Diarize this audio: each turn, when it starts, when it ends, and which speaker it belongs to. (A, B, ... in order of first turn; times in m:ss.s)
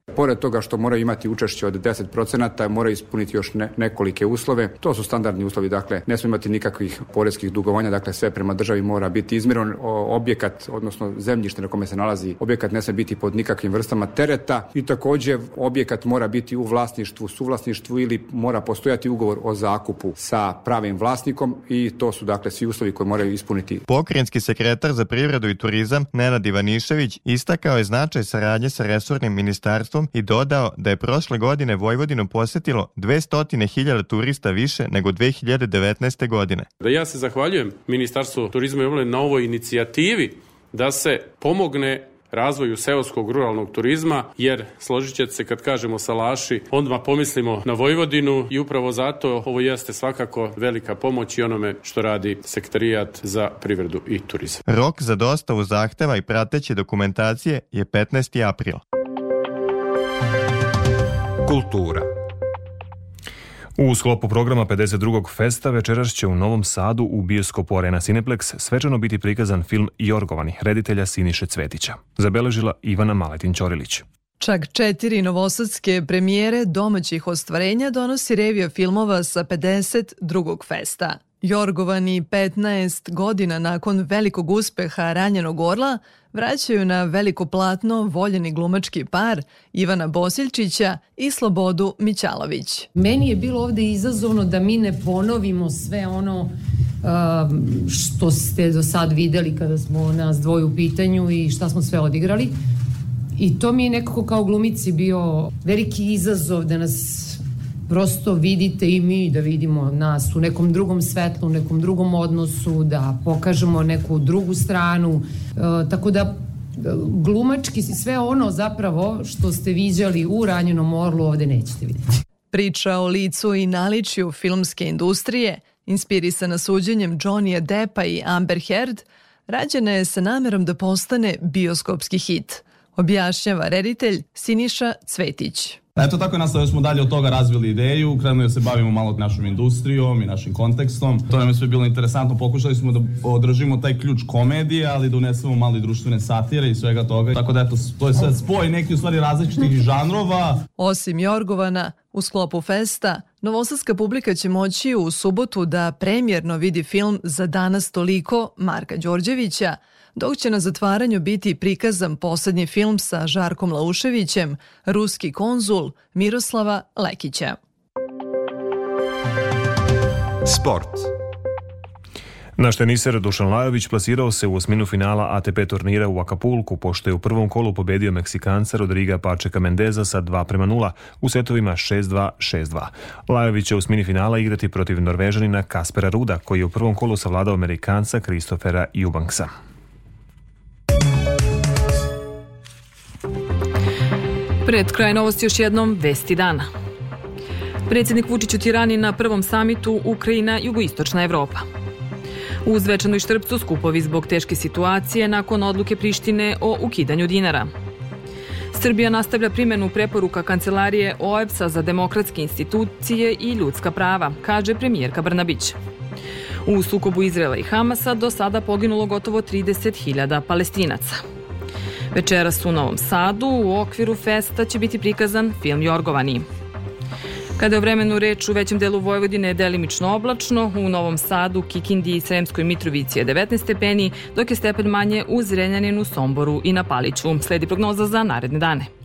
0:00.1-0:23.8 A
0:23.9-0:36.7 B
0:36.8-0:54.6 C
0:54.7-0:58.8 B
1:01.4-1:02.0 A
1:03.8-1:14.0 D
1:14.4-1:32.9 E
1:33.0-1:36.5 F
1:37.0-1:42.5 F
1:43.4-2:02.0 F
2:02.5-2:15.8 E
2:16.0-2:30.6 G
2:30.8-2:47.6 E
2:52.6-3:09.5 D
3:14.6-3:16.7 H
3:17.9-3:21.6 H
3:22.6-3:27.7 H
3:28.7-3:35.8 H
3:36.6-3:41.2 H
3:42.1-3:46.5 H
3:47.6-3:58.9 H